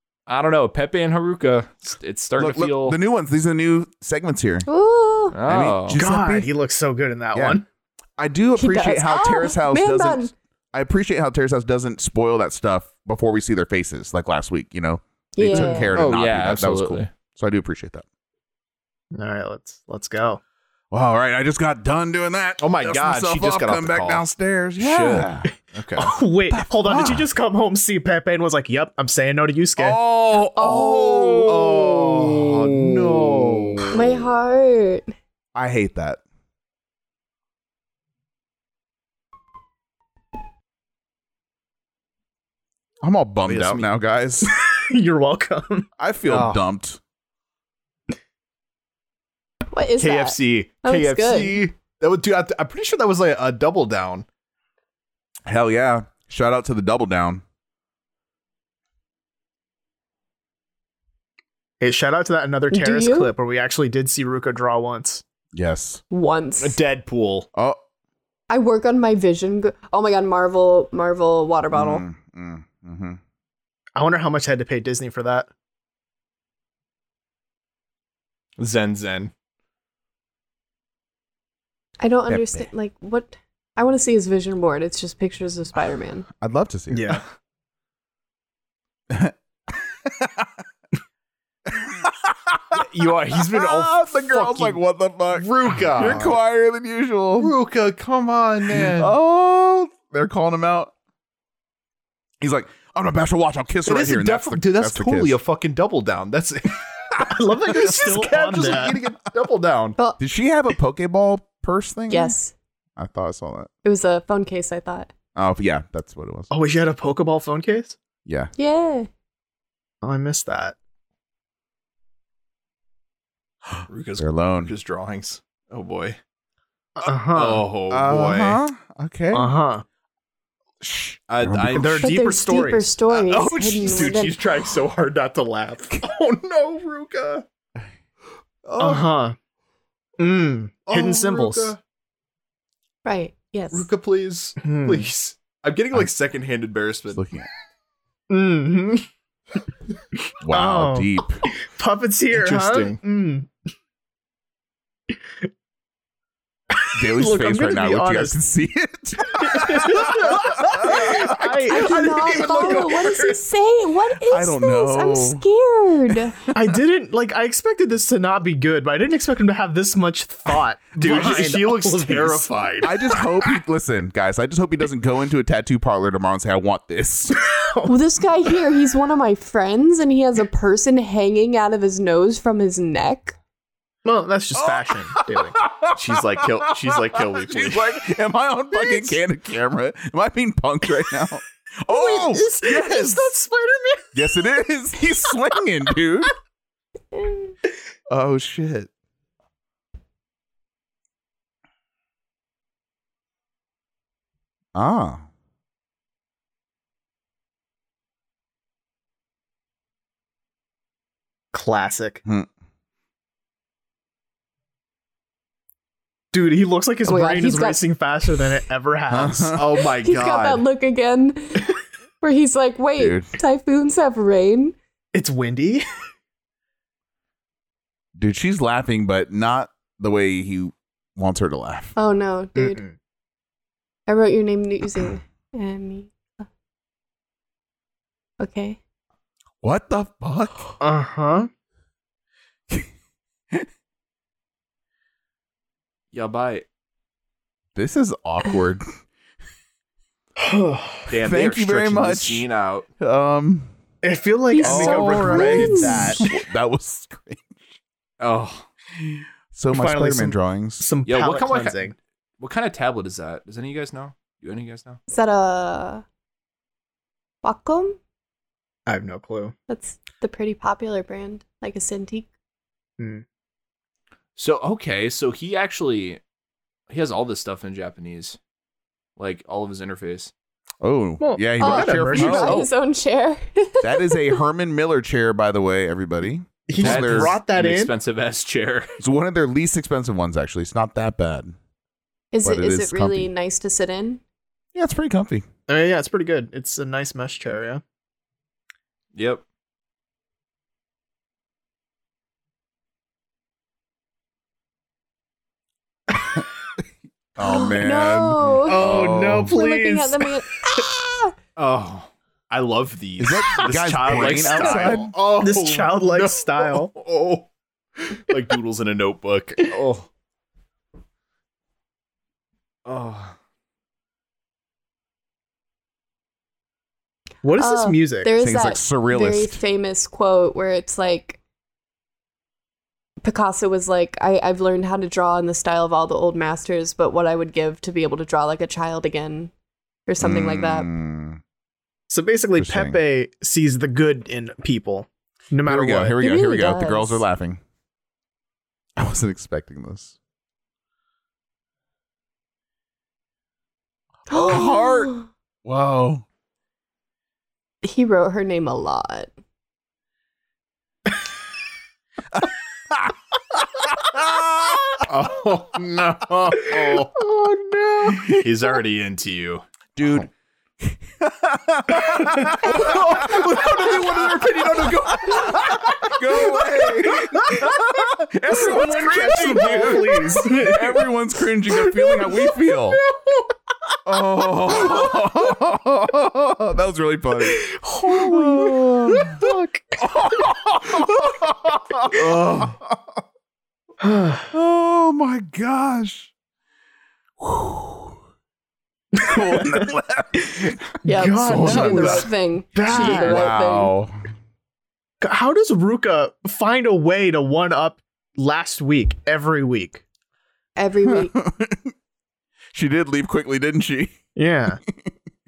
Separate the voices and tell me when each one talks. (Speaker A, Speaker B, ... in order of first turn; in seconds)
Speaker A: 0.3-3.0, 5.3-6.0, 15.9-17.1, 22.6-26.1, 31.4-34.0, 43.4-43.9, 46.3-46.6, 50.0-54.2, 66.6-67.5, 78.6-79.3, 92.7-94.8, 95.3-96.4, 97.4-99.1, 103.8-110.0, 123.9-126.2, 127.3-128.6, 131.3-132.1, 133.1-137.4, 138.6-139.1, 140.9-141.8, 143.7-147.2, 152.3-153.0, 162.1-162.7, 171.0-173.2, 185.9-188.0, 219.5-220.6, 246.1-246.6, 251.1-252.9, 258.2-258.7, 261.1-265.0, 274.4-276.2, 276.9-278.4, 279.2-280.3, 286.8-288.9, 299.1-299.4, 311.6-317.5, 318.0-320.1, 322.8-323.3, 365.0-367.1, 368.3-369.6, 372.6-377.7, 379.3-379.7
Speaker B: 2.4-4.7, 5.5-6.5, 7.3-7.6, 8.2-18.0, 20.9-25.5, 26.5-27.3, 29.8-34.0, 35.5-36.2, 43.0-44.5, 46.0-47.0, 55.5-57.4, 65.5-66.0, 67.5-67.8, 71.7-73.2, 82.3-82.7, 86.4-87.2, 89.1-90.6, 91.7-92.8, 93.4-97.5, 98.7-100.9, 102.4-105.4, 110.2-112.3, 113.0-113.7, 115.3-116.5, 118.2-118.5, 123.7-124.7, 127.9-129.5, 130.8-131.9, 147.1-147.5, 150.4-151.4, 156.9-161.9, 164.3-165.4, 172.8-177.4, 184.5-193.3, 194.1-196.3, 198.1-198.9, 204.7-205.2, 219.1-219.6, 223.0-223.3, 228.2-231.9, 239.6-240.7, 247.7-248.8, 251.2-252.4, 253.0-253.7, 254.6-257.5, 259.0-260.9, 280.8-282.7, 283.8-287.3, 289.0-291.5, 292.4-293.3, 294.7-295.4, 307.4-309.5, 313.2-315.1, 328.4-329.6, 340.2-341.4, 342.6-343.0, 345.6-347.6, 349.0-350.1, 354.3-355.1, 355.6-356.2, 362.3-365.0, 369.9-370.3, 370.8-383.0, 384.0-393.0, 394.5-396.3, 397.4-398.1, 399.2-400.8, 401.4-404.1, 411.1-411.9, 412.7-414.2
Speaker C: 4.7-5.4, 8.6-10.3, 15.3-16.0, 30.5-31.5, 33.9-35.1, 49.7-51.6, 62.7-63.3, 66.1-66.8, 68.5-72.0, 82.0-86.2, 112.1-112.5, 113.8-115.1, 118.5-119.1, 132.0-134.4, 143.0-143.9, 161.7-166.4, 177.8-183.3, 217.0-217.8, 219.8-221.7, 222.2-224.8, 231.9-232.8, 234.1-236.4, 238.4-238.8, 254.5-256.2, 265.1-266.0, 267.4-268.0, 269.7-272.3, 281.6-284.4, 292.3-294.2, 307.4-311.3, 327.6-331.4, 333.2-339.5, 340.1-340.9, 346.2-347.2, 354.3-355.3, 357.8-359.3, 401.0-403.9, 410.8-411.3
Speaker D: 5.9-7.6, 15.5-15.8, 19.1-20.4, 26.0-30.0, 44.4-45.9, 61.8-65.2, 74.0-75.5, 86.9-87.2, 107.2-109.0, 116.5-118.0, 120.0-120.7, 127.0-127.7, 129.3-129.8, 131.7-132.9, 138.8-139.3, 140.2-141.7, 144.6-145.1, 148.3-149.1, 150.4-153.5, 155.1-155.5, 156.8-158.4, 159.3-163.4, 166.5-173.2, 177.5-177.9, 184.0-185.6, 188.7-189.1, 191.9-194.1, 211.5-212.2, 216.3-219.6, 225.1-225.8, 232.6-232.9, 240.8-241.5, 250.4-251.1, 254.0-256.3, 259.7-261.9, 268.9-269.5, 273.0-273.2, 281.2-282.7, 286.7-287.9, 295.7-297.8, 308.6-310.8, 313.4-316.9, 327.4-328.3, 342.1-346.2, 366.7-368.4, 372.0-372.8, 378.4-381.1, 381.7-382.6, 384.7-385.2, 387.4-390.5, 394.0-394.5, 399.1-403.5, 405.2-410.0, 414.4-414.8